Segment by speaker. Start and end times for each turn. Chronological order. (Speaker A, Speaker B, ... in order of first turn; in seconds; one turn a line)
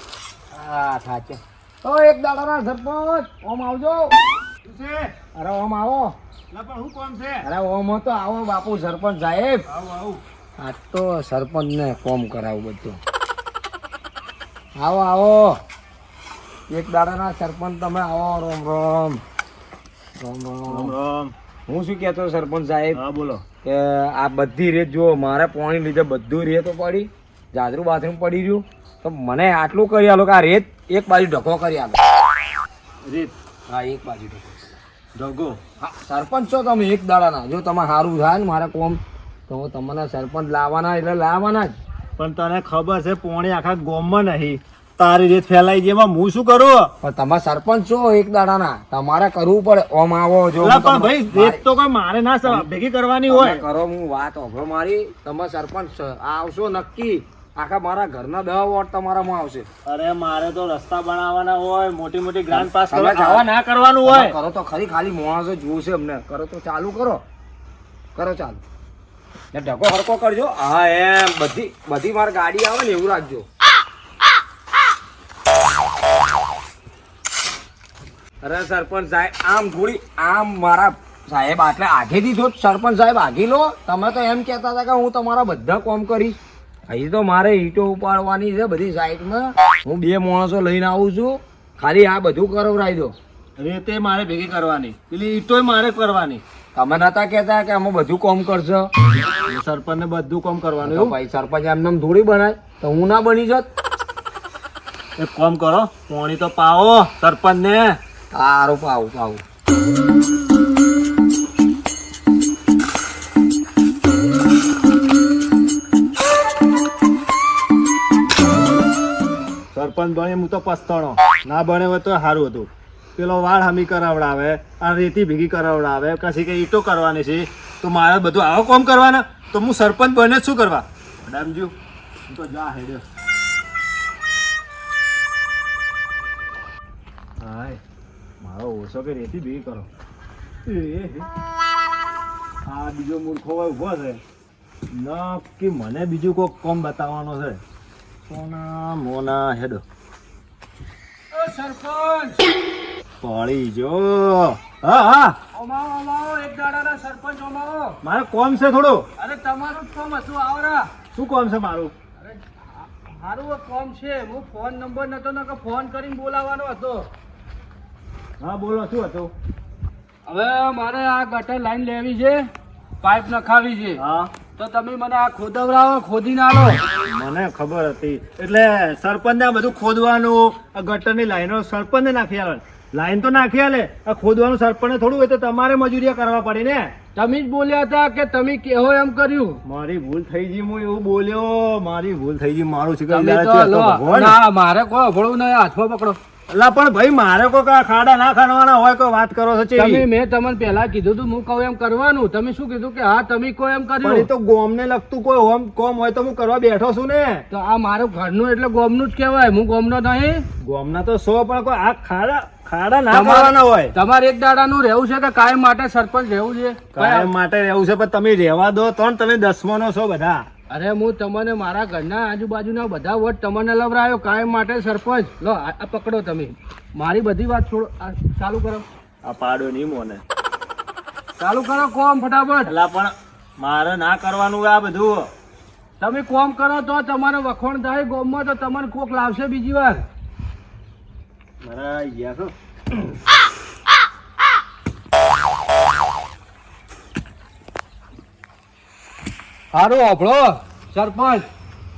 Speaker A: 0.5-4.2
Speaker B: 4.6-5.1
Speaker A: 5.3-6.2
Speaker B: 6.5-7.5
Speaker A: 7.4-9.6
Speaker B: 9.7-10.2
Speaker A: 10.6-13.0
Speaker A: 14.8-15.6
Speaker A: 16.7-19.2
Speaker A: 20.2-20.9
Speaker B: 20.7-21.3
Speaker A: 21.7-23.0
Speaker B: 22.9-23.4
Speaker A: 23.6-32.0
Speaker B: 33.0-33.3
Speaker A: 33.7-34.5
Speaker B: 35.1-35.6
Speaker A: 35.8-41.8
Speaker B: 42.2-46.9
Speaker A: 47.0-51.6
Speaker B: 50.6-53.6
Speaker A: 53.3-59.7
Speaker B: 59.8-64.3
Speaker A: 62.5-63.5
Speaker A: 64.0-67.2
Speaker A: 68.1-68.6
Speaker A: 69.5-73.5
Speaker A: 78.4-93.1
Speaker B: 93.6-96.4
Speaker A: 96.8-98.9
Speaker B: 99.5-101.1
Speaker A: 100.8-103.7
Speaker B: 105.2-108.0
Speaker A: 108.3-109.4
Speaker B: 119.7-131.7
Speaker B: 132.3-133.0
Speaker B: 137.4-137.8
Speaker B: 138.4-139.9
Speaker B: 140.7-141.3
Speaker B: 142.7-144.2
Speaker B: 144.9-147.6
Speaker B: 148.3-149.8
Speaker C: 151.3-152.4
Speaker B: 153.2-155.4
Speaker C: 155.5-158.0
Speaker B: 158.0-159.0
Speaker C: 159.2-160.9
Speaker B: 161.1-161.9
Speaker C: 162.2-167.1
Speaker B: 168.4-169.3
Speaker C: 170.3-172.5
Speaker C: 173.0-174.0
Speaker B: 174.0-174.3
Speaker C: 174.6-176.8
Speaker B: 177.1-186.9
Speaker C: 187.2-189.6
Speaker B: 189.6-194.3
Speaker C: 193.1-196.2
Speaker B: 196.5-200.0
Speaker C: 199.8-204.3
Speaker B: 204.0-207.4
Speaker C: 207.5-210.4
Speaker B: 210.6-213.9
Speaker C: 213.1-217.3
Speaker B: 216.9-220.4
Speaker C: 220.7-228.8
Speaker B: 229.2-230.2
Speaker C: 231.4-232.7
Speaker B: 232.7-235.3
Speaker C: 236.0-240.0
Speaker B: 241.6-242.5
Speaker C: 249.7-251.4